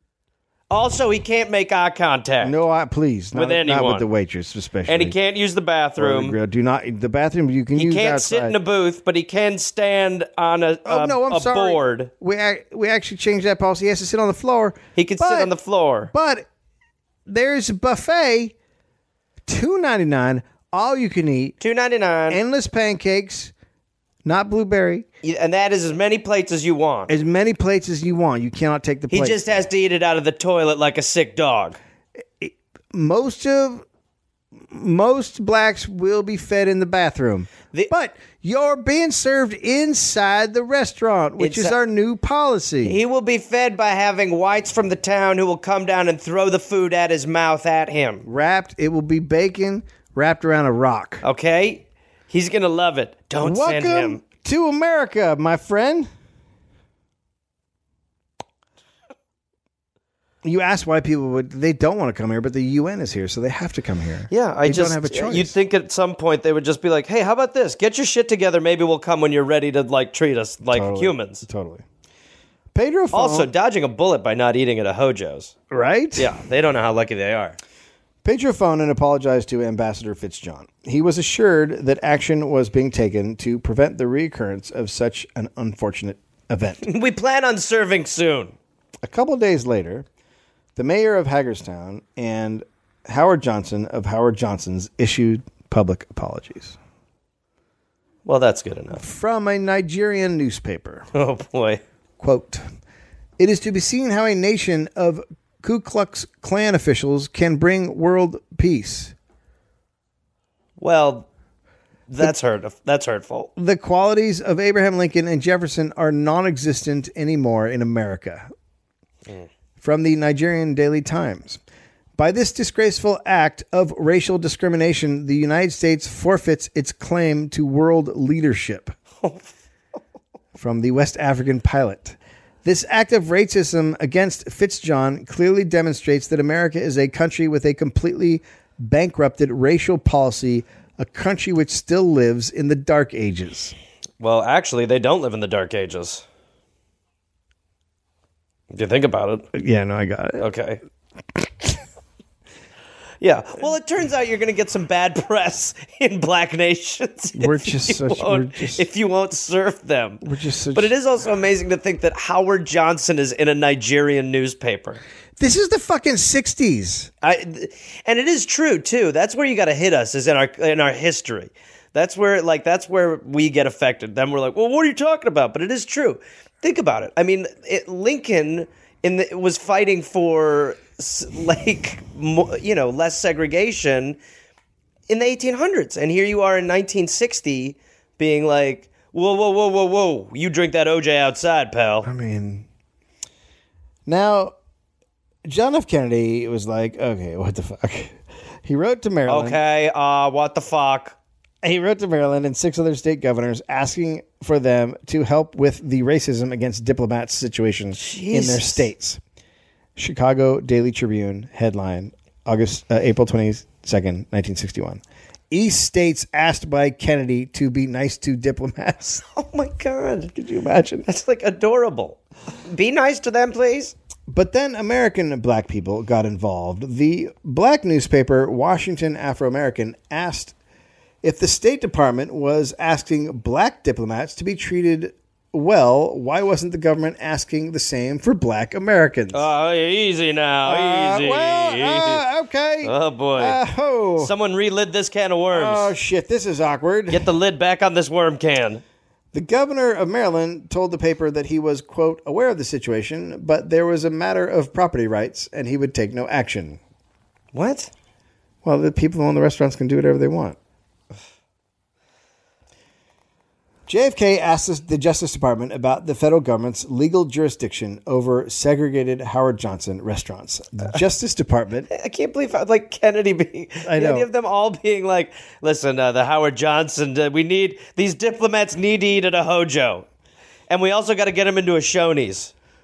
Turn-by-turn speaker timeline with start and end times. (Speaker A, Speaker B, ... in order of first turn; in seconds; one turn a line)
Speaker A: 0.7-2.6
Speaker B: 2.4-5.2
Speaker A: 3.3-4.1
Speaker A: 4.9-6.4
Speaker B: 6.0-8.6
Speaker A: 7.8-12.1
Speaker B: 10.9-15.5
Speaker A: 15.0-16.1
Speaker B: 16.1-16.5
Speaker B: 17.3-18.5
Speaker B: 19.5-21.6
Speaker A: 21.6-22.4
Speaker B: 22.3-23.5
Speaker B: 24.2-25.1
Speaker A: 25.2-27.1
Speaker B: 27.1-29.6
Speaker A: 29.1-31.8
Speaker B: 32.4-33.9
Speaker B: 34.7-43.0
Speaker A: 41.4-41.8
Speaker A: 42.8-48.3
Speaker B: 48.2-51.2
Speaker A: 51.2-54.2
Speaker B: 53.4-56.1
Speaker B: 60.4-65.5
Speaker A: 64.3-71.5
Speaker B: 70.7-71.8
Speaker B: 72.7-73.5
Speaker A: 73.1-75.5
Speaker B: 75.7-76.3
Speaker A: 76.2-77.6
Speaker B: 78.2-86.8
Speaker A: 86.8-88.5
Speaker B: 89.0-90.1
Speaker B: 90.8-96.8
Speaker A: 98.2-99.0
Speaker B: 98.9-101.1
Speaker A: 101.1-101.8
Speaker B: 102.2-102.6
Speaker B: 103.4-109.1
Speaker A: 110.8-111.3
Speaker A: 112.1-113.5
Speaker B: 113.6-118.5
Speaker B: 119.8-121.6
Speaker B: 122.2-128.9
Speaker A: 129.2-129.5
Speaker B: 130.6-143.8
Speaker A: 144.2-146.2
Speaker A: 148.7-149.5
Speaker B: 149.5-150.4
Speaker A: 150.4-150.8
Speaker A: 153.2-165.0
Speaker B: 157.4-158.8
Speaker B: 160.2-160.9
Speaker B: 165.4-167.1
Speaker A: 167.2-184.2
Speaker A: 185.1-192.1
Speaker B: 192.0-192.7
Speaker B: 194.1-194.5
Speaker B: 195.5-199.6
Speaker A: 199.3-201.2
Speaker B: 201.6-209.2
Speaker A: 208.0-208.9
Speaker B: 210.0-219.2
Speaker A: 219.3-220.3
Speaker B: 220.3-221.1
Speaker A: 221.1-223.9
Speaker B: 224.3-230.6
Speaker B: 231.2-239.5
Speaker A: 239.3-242.2
Speaker B: 240.7-244.3
Speaker A: 242.8-243.6
Speaker A: 244.2-245.9
Speaker B: 245.5-247.3
Speaker A: 247.1-248.8
Speaker B: 249.3-256.8
Speaker A: 257.5-257.9
Speaker B: 258.6-260.6
Speaker B: 263.9-271.9
Speaker A: 271.9-280.1
Speaker B: 273.9-274.3
Speaker A: 280.7-282.5